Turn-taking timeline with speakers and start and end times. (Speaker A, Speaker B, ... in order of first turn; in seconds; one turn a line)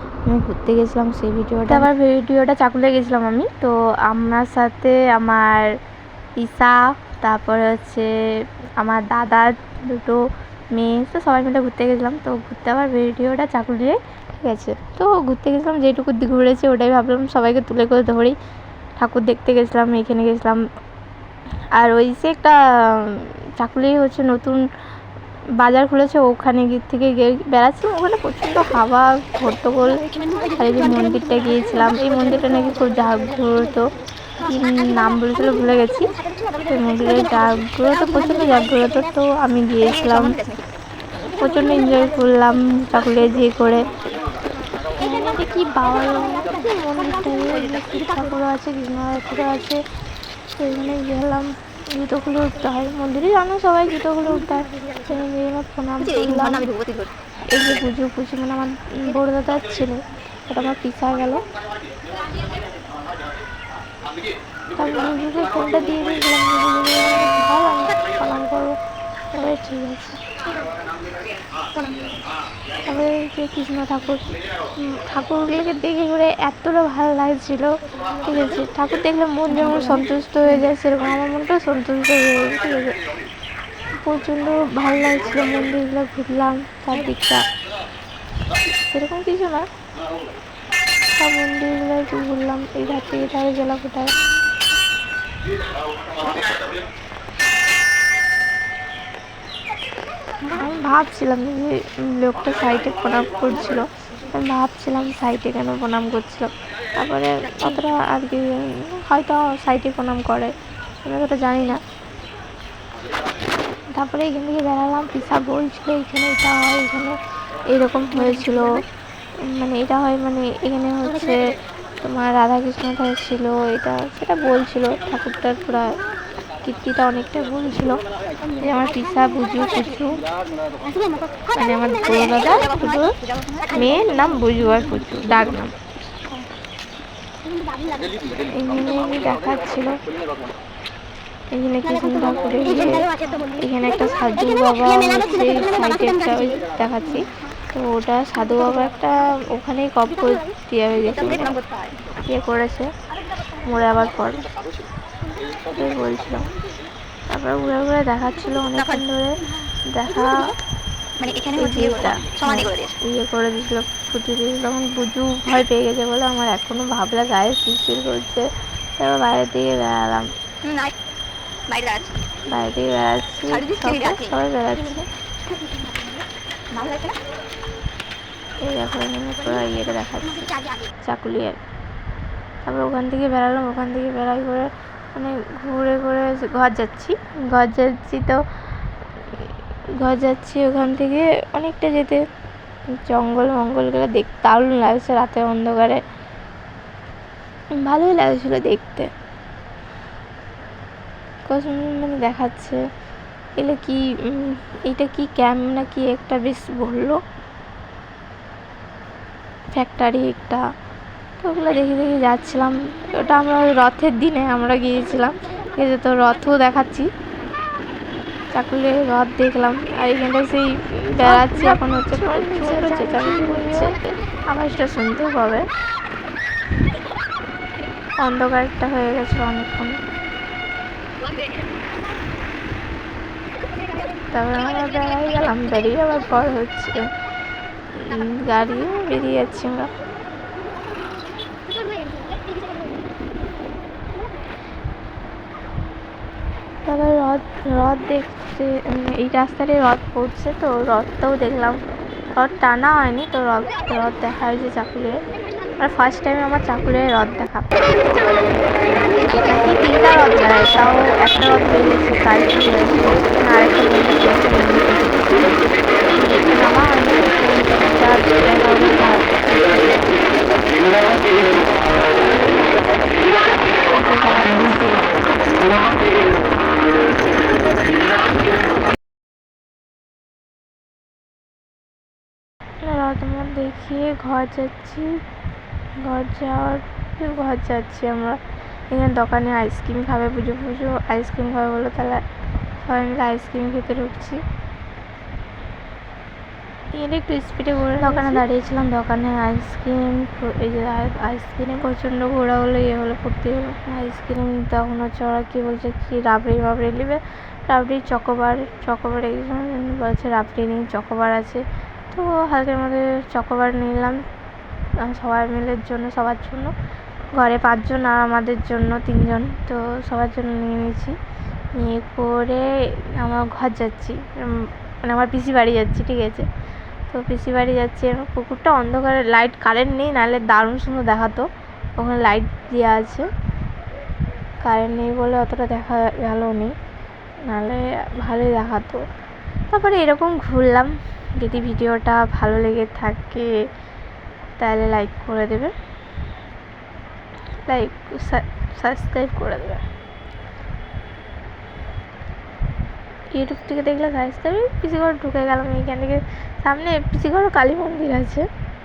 Speaker A: 0.3-5.8
Speaker A: 6.4-8.1
Speaker A: 8.8-10.2
Speaker A: 10.7-18.4
Speaker A: 19.0-20.6
Speaker A: 21.8-24.6
Speaker A: 25.6-36.1
Speaker A: 36.6-40.4
Speaker B: 39.8-40.6
Speaker A: 41.4-43.9
Speaker A: 45.0-49.8
Speaker A: 50.5-56.7
Speaker B: 56.0-57.1
Speaker A: 57.5-61.4
Speaker A: 64.7-68.8
Speaker A: 69.3-70.2
Speaker A: 72.8-74.2
Speaker A: 74.8-83.0
Speaker A: 84.0-87.4
Speaker A: 88.8-89.7
Speaker A: 91.2-94.1
Speaker A: 100.5-110.5
Speaker A: 111.0-111.8
Speaker A: 113.9-117.2
Speaker A: 117.7-118.8
Speaker A: 119.4-125.9
Speaker A: 126.6-128.0
Speaker A: 128.6-130.2
Speaker A: 131.5-133.2
Speaker A: 133.7-135.7
Speaker A: 138.5-140.0
Speaker A: 141.5-151.6
Speaker B: 151.3-152.0
Speaker A: 152.2-152.9
Speaker A: 153.6-154.5
Speaker A: 155.7-156.5
Speaker A: 157.3-160.5
Speaker B: 161.2-162.9
Speaker A: 161.5-168.4
Speaker A: 169.0-170.3
Speaker B: 170.6-170.9
Speaker B: 171.7-172.1
Speaker A: 172.5-175.1
Speaker B: 173.5-174.3
Speaker B: 176.7-177.2
Speaker A: 178.6-180.5
Speaker A: 181.0-181.6
Speaker A: 182.6-188.4
Speaker A: 190.0-192.2
Speaker A: 193.1-196.0
Speaker A: 197.8-199.1
Speaker A: 201.5-202.8
Speaker A: 203.6-207.2
Speaker A: 209.7-210.6
Speaker A: 211.4-217.1
Speaker A: 218.5-225.6
Speaker B: 221.2-221.9
Speaker B: 222.8-224.0
Speaker A: 228.2-230.0
Speaker A: 234.3-237.0
Speaker A: 237.9-239.9
Speaker A: 246.8-251.8
Speaker A: 252.3-255.2
Speaker A: 255.8-257.7
Speaker A: 259.2-265.6
Speaker A: 266.1-270.0
Speaker A: 273.9-275.2
Speaker A: 282.8-285.1
Speaker A: 286.0-288.4
Speaker A: 288.9-292.2
Speaker A: 292.8-294.4
Speaker A: 296.9-314.2
Speaker B: 298.0-298.4
Speaker A: 315.0-316.7
Speaker A: 317.3-321.1
Speaker A: 321.7-326.4
Speaker A: 327.1-333.3
Speaker A: 334.6-336.7
Speaker A: 337.4-339.0
Speaker A: 339.7-343.5
Speaker A: 344.6-345.7
Speaker A: 347.6-349.8
Speaker A: 353.3-358.4